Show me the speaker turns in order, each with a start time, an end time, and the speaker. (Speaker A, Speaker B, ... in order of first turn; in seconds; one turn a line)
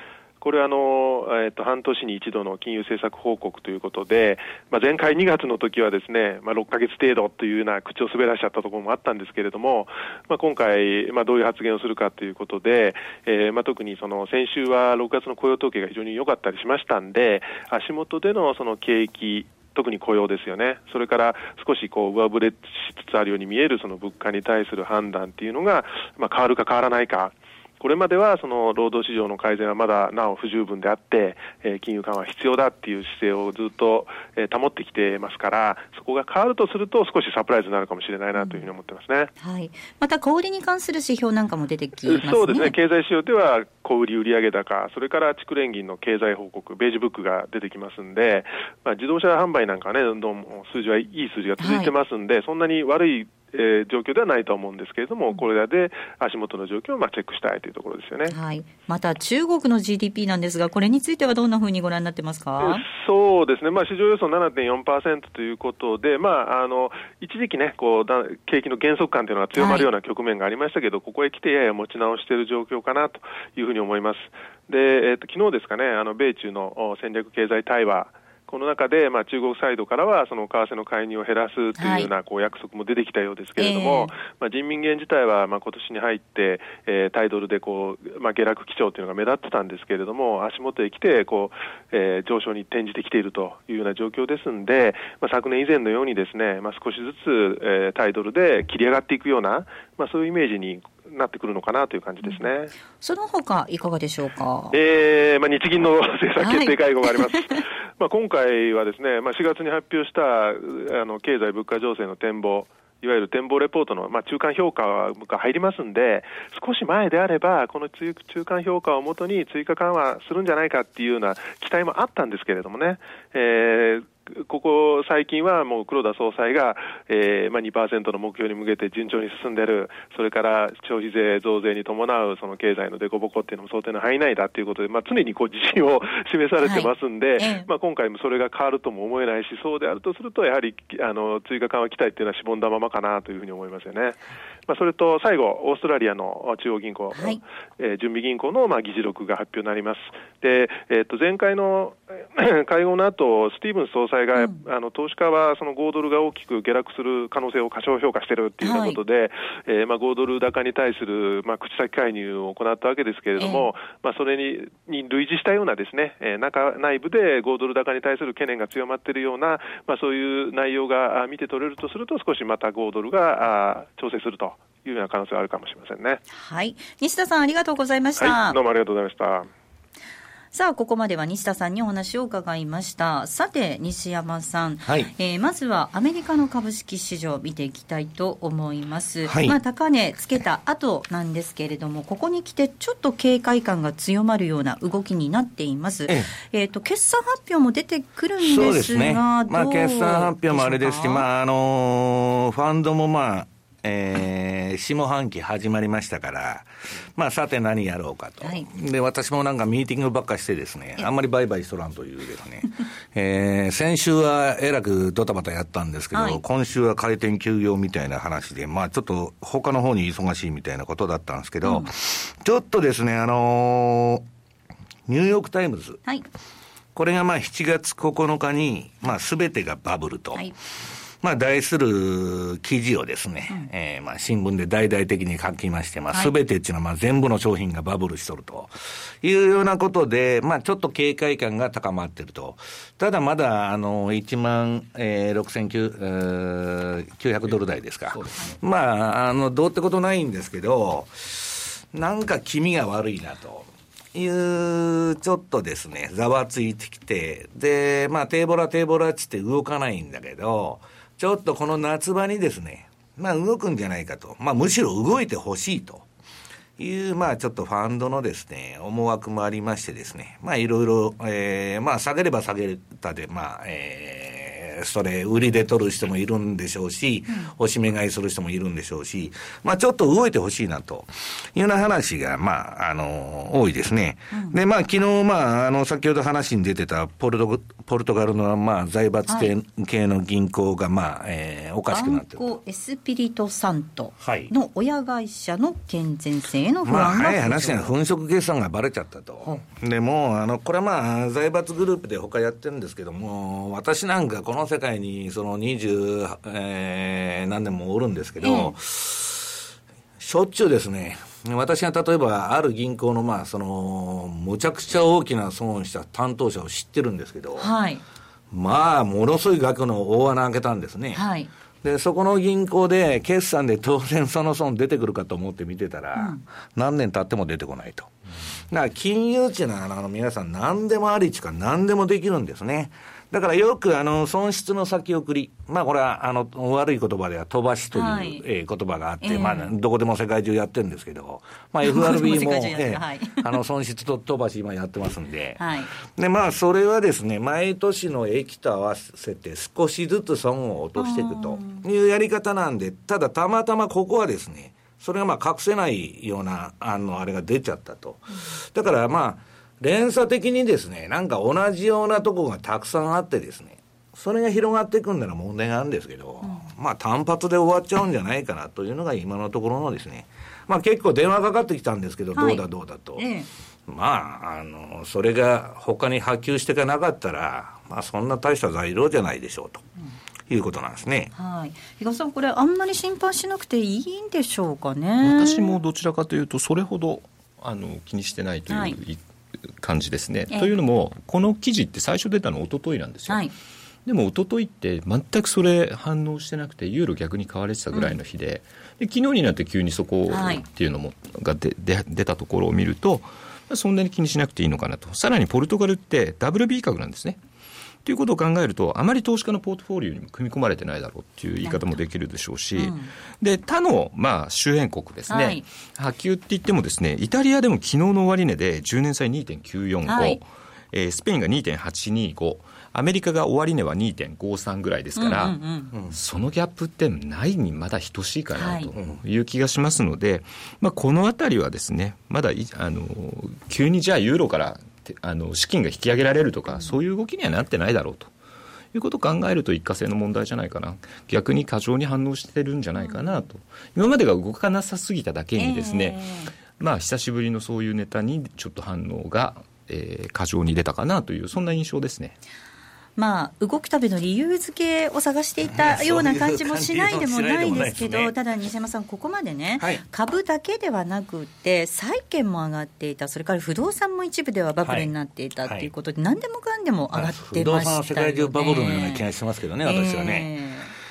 Speaker A: 0.4-39.3
Speaker B: 38.4-38.7
Speaker B: 39.4-42.8
Speaker A: 42.1-58.4
Speaker B: 51.6-51.9
Speaker B: 58.3-62.8
Speaker A: 62.6-102.7
Speaker B: 69.6-69.9
Speaker B: 81.8-82.1
Speaker B: 83.6-84.1
Speaker B: 103.0-104.8
Speaker A: 104.7-176.2
Speaker B: 106.4-107.6
Speaker B: 136.6-137.7
Speaker B: 147.2-147.4
Speaker B: 154.4-154.6
Speaker B: 158.6-159.0
Speaker B: 163.4-163.7
Speaker B: 176.3-178.6
Speaker A: 178.2-179.5
Speaker B: 180.5-201.3
Speaker C: 184.8-185.1
Speaker C: 189.2-189.6
Speaker C: 198.4-224.2
Speaker B: 216.1-216.4
Speaker B: 221.6-221.9
Speaker C: 225.1-226.0
Speaker C: 226.9-230.4
Speaker C: 231.2-266.1
Speaker D: 248.1-248.6
Speaker C: 266.8-292.6
Speaker B: 284.3-284.6
Speaker B: 291.9-297.9
Speaker C: 294.2-294.5
Speaker C: 296.9-309.5
Speaker B: 308.4-308.7
Speaker C: 310.2-317.7
Speaker B: 317.6-318.0
Speaker C: 318.5-321.2
Speaker B: 321.1-321.5
Speaker C: 321.8-328.1
Speaker B: 326.1-326.4
Speaker C: 328.7-373.2
Speaker B: 337.9-338.4
Speaker B: 339.2-339.7
Speaker B: 341.8-343.5
Speaker B: 345.6-345.9
Speaker B: 351.0-351.8
Speaker B: 366.4-366.7
Speaker B: 372.3-372.6
Speaker B: 373.2-373.5
Speaker C: 373.9-379.9
Speaker C: 380.5-381.3
Speaker B: 381.3-385.8
Speaker D: 385.2-393.4
Speaker B: 388.7-389.0
Speaker B: 393.3-393.5
Speaker D: 394.1-407.4
Speaker B: 400.3-400.6
Speaker D: 408.1-438.3
Speaker B: 411.6-412.0
Speaker B: 412.8-413.1
Speaker B: 415.3-415.6
Speaker B: 420.1-420.4
Speaker B: 425.2-425.9
Speaker C: 425.9-426.2
Speaker B: 428.6-428.9
Speaker C: 428.9-429.2
Speaker B: 436.7-436.9
Speaker D: 438.9-446.2
Speaker B: 443.0-443.4
Speaker B: 445.6-446.5
Speaker D: 446.8-452.4
Speaker B: 453.2-469.3
Speaker C: 455.7-458.3
Speaker C: 464.8-465.1
Speaker C: 465.6-465.9
Speaker C: 467.1-470.5
Speaker B: 469.8-470.9